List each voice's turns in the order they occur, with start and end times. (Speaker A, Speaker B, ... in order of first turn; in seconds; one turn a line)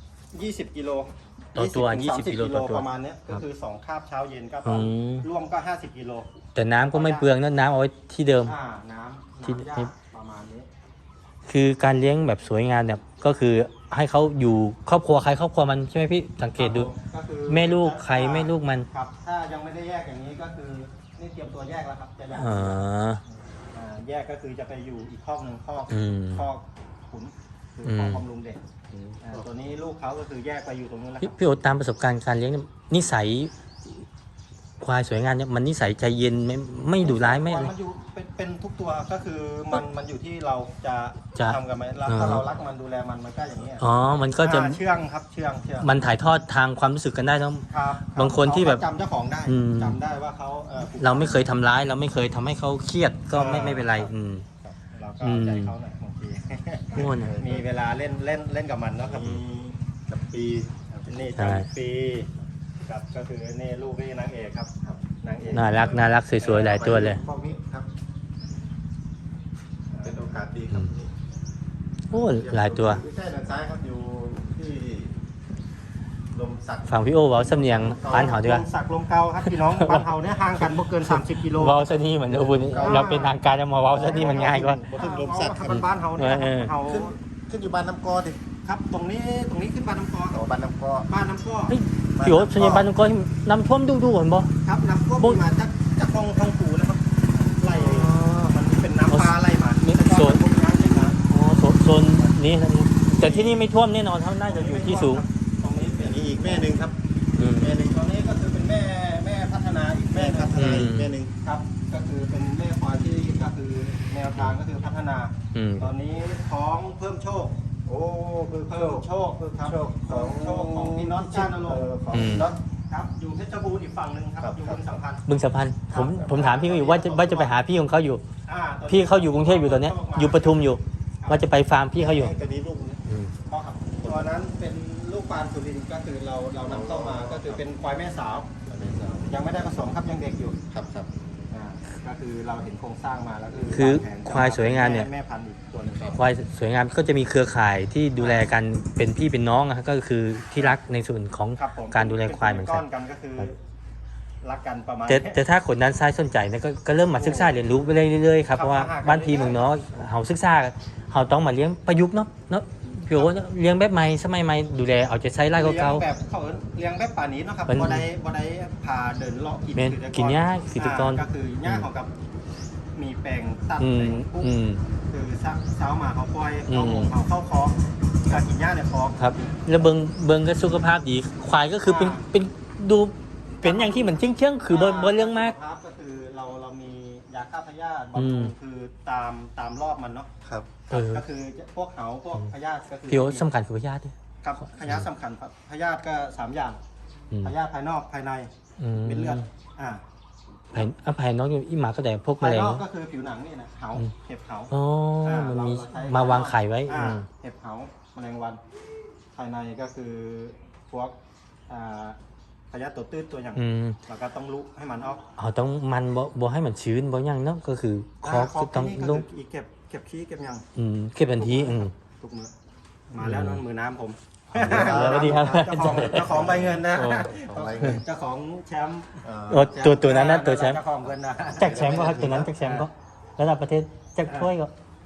Speaker A: 0.3-7.3
Speaker B: 1.5-3.4
Speaker B: 4.6-5.2
Speaker B: 6.5-8.5
Speaker A: 8.4-10.7
Speaker B: 9.4-9.9
Speaker B: 11.5-16.9
Speaker A: 16.6-22.8
Speaker B: 17.5-18.9
Speaker B: 22.3-23.2
Speaker A: 23.7-28.6
Speaker B: 25.9-26.4
Speaker B: 27.8-28.2
Speaker C: 29.0-29.4
Speaker A: 29.2-31.4
Speaker B: 31.2-33.5
Speaker B: 34.8-37.7
Speaker A: 37.0-43.9
Speaker B: 41.3-42.4
Speaker B: 43.8-44.8
Speaker A: 44.4-45.9
Speaker B: 45.8-48.8
Speaker A: 47.7-51.5
Speaker B: 49.5-50.0
Speaker B: 51.0-54.4
Speaker A: 53.3-59.4
Speaker B: 55.2-55.7
Speaker B: 56.9-57.3
Speaker C: 57.0-57.6
Speaker C: 59.1-61.1
Speaker A: 61.0-62.3
Speaker B: 61.4-61.7
Speaker A: 62.8-65.8
Speaker B: 65.5-67.2
Speaker C: 65.5-67.9
Speaker A: 66.4-66.9
Speaker C: 70.0-71.1
Speaker B: 72.1-73.0
Speaker C: 72.1-75.2
Speaker C: 76.3-78.4
Speaker B: 76.9-78.6
Speaker A: 78.0-81.9
Speaker B: 79.4-80.0
Speaker B: 80.6-84.9
Speaker C: 82.7-83.1
Speaker A: 82.8-83.3
Speaker C: 83.9-85.9
Speaker A: 84.0-87.1
Speaker B: 85.5-86.7
Speaker C: 86.8-88.4
Speaker A: 88.6-90.5
Speaker C: 90.3-91.1
Speaker A: 91.0-92.5
Speaker B: 91.7-94.5
Speaker C: 92.1-92.9
Speaker A: 94.6-101.2
Speaker B: 97.7-100.4
Speaker B: 101.3-105.2
Speaker A: 103.1-103.7
Speaker A: 104.4-106.8
Speaker C: 106.0-107.0
Speaker B: 107.3-107.8
Speaker C: 107.5-108.0
Speaker A: 107.6-110.9
Speaker C: 110.1-111.3
Speaker B: 110.5-111.2
Speaker A: 111.4-117.5
Speaker B: 115.5-115.9
Speaker C: 117.8-119.0
Speaker A: 118.7-121.8
Speaker C: 119.6-122.6
Speaker B: 122.1-122.5
Speaker A: 122.4-125.2
Speaker C: 124.4-124.8
Speaker B: 125.3-128.2
Speaker A: 125.9-127.6
Speaker A: 128.5-130.7
Speaker B: 128.9-132.3
Speaker A: 131.2-131.5
Speaker C: 131.9-133.0
Speaker B: 133.1-133.3
Speaker A: 133.4-138.5
Speaker C: 134.0-134.3
Speaker C: 136.6-137.6
Speaker C: 138.7-139.3
Speaker A: 139.2-140.6
Speaker C: 140.7-141.1
Speaker A: 141.5-146.1
Speaker B: 143.7-145.1
Speaker C: 145.9-146.2
Speaker B: 146.1-152.8
Speaker A: 148.2-148.5
Speaker A: 151.6-153.6
Speaker A: 154.4-155.4
Speaker B: 155.1-166.0
Speaker A: 157.1-157.6
Speaker A: 158.5-159.8
Speaker A: 165.5-172.1
Speaker B: 167.7-168.1
Speaker B: 169.7-171.9
Speaker A: 172.9-174.6
Speaker B: 173.8-174.8
Speaker A: 175.1-179.4
Speaker B: 176.7-177.1
Speaker B: 179.2-185.5
Speaker A: 181.8-182.2
Speaker A: 183.6-190.3
Speaker B: 188.2-188.5
Speaker C: 190.4-190.7
Speaker A: 190.9-193.5
Speaker B: 190.9-191.2
Speaker B: 193.1-194.1
Speaker A: 194.4-196.8
Speaker A: 197.4-200.0
Speaker B: 198.8-199.4
Speaker B: 200.7-202.8
Speaker A: 202.4-204.7
Speaker B: 204.7-207.2
Speaker A: 205.2-208.6
Speaker A: 209.3-211.2
Speaker A: 211.7-212.2
Speaker A: 212.7-215.2
Speaker B: 213.5-214.0
Speaker B: 215.4-219.2
Speaker A: 218.2-220.6
Speaker B: 220.8-221.9
Speaker A: 221.4-222.5
Speaker A: 223.1-232.9
Speaker B: 223.2-223.6
Speaker B: 224.5-228.0
Speaker C: 224.6-226.7
Speaker C: 227.4-228.0
Speaker C: 229.2-229.7
Speaker B: 229.5-230.8
Speaker C: 231.5-232.5
Speaker B: 231.6-234.7
Speaker A: 234.2-234.5